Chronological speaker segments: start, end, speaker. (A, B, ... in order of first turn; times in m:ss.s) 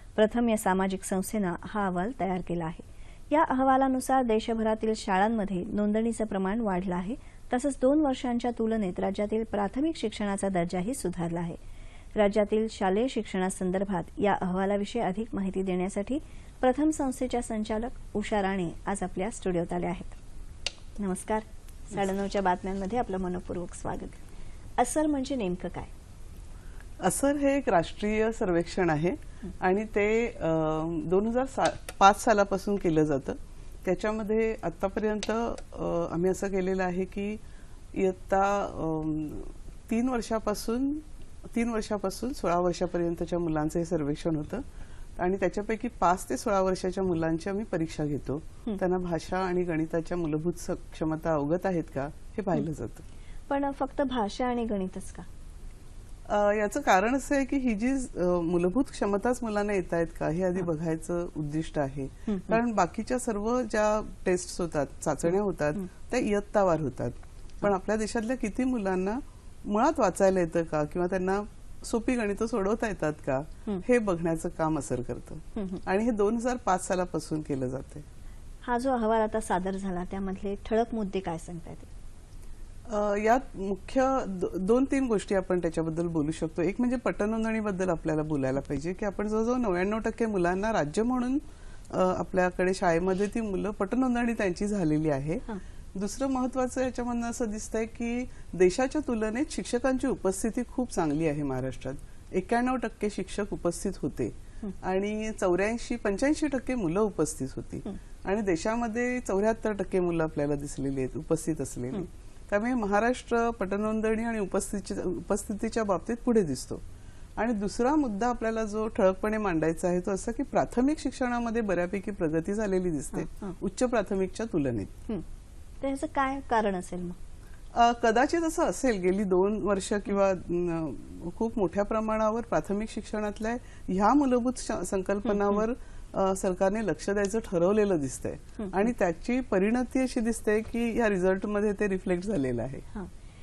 0:00.2-0:11.6 A
0:12.1-0:20.2 A
0:21.0-0:24.2 A
0:24.8-0:25.9 A
0:27.0-0:37.4 B
0:37.9-0:44.6 B
0:45.2-0:53.0 B
0:53.5-0:55.2 A
0:56.3-1:18.0 B
1:02.3-1:02.6 A
1:18.6-1:21.9 A
1:22.9-1:56.8 B
1:57.4-2:04.9 B
2:03.2-2:03.5 A
2:05.8-2:07.2 A
2:07.7-2:22.8 B